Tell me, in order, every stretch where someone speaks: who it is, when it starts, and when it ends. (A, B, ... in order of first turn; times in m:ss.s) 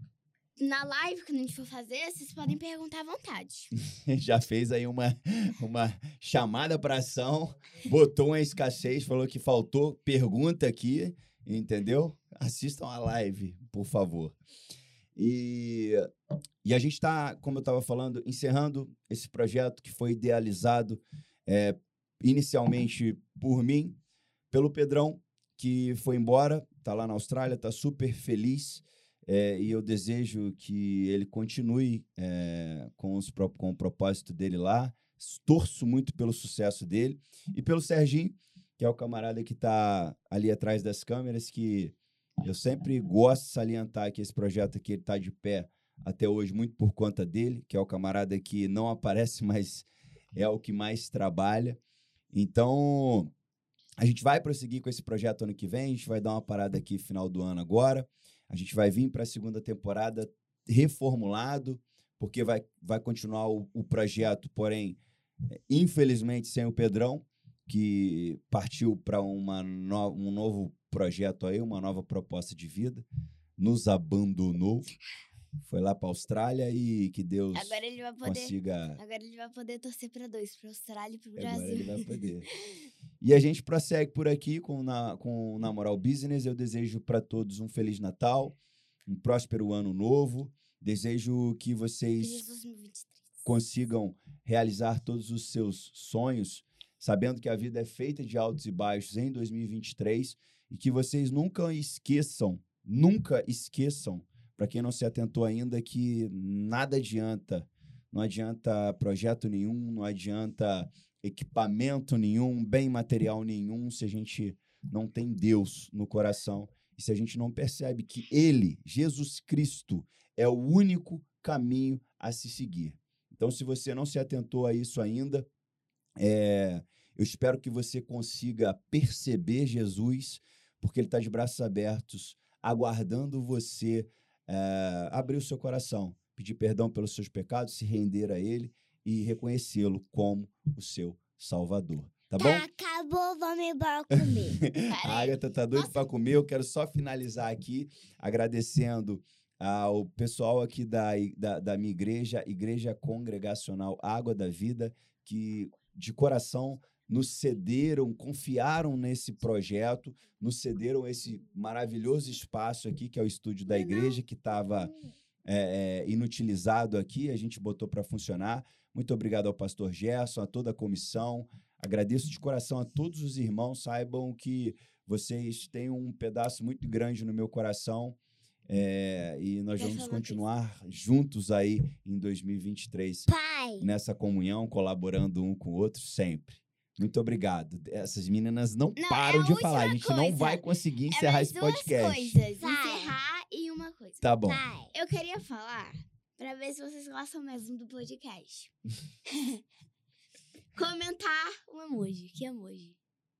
0:00.6-0:03.7 A
0:03.9-0:14.4 B
0:15.2-0:16.1 B
0:16.6-0:24.0 B
0:24.5-0:51.8 B
0:52.3-0:53.3 B
0:54.0-1:13.1 B
1:13.6-1:14.9 B
1:15.6-1:19.0 B
1:17.5-1:22.1 A
1:21.4-1:22.5 B
1:23.2-1:32.4 B
1:32.2-1:33.4 A
1:33.4-2:05.5 B
2:06.2-2:22.7 B
2:22.4-2:24.6 C
2:24.1-2:44.9 B
2:24.9-2:26.1 A
2:43.7-2:45.2 C
2:45.4-2:58.2 B
2:58.7-3:03.3 B
2:59.8-3:00.4 A
3:03.3-3:03.9 C
3:03.8-3:12.4 B
3:09.0-3:14.2 A
3:12.6-3:13.2 C
3:14.2-3:14.6 B
3:14.4-3:14.9 C
3:14.9-3:18.7 A
3:19.3-3:19.6 A
3:20.8-3:23.0 A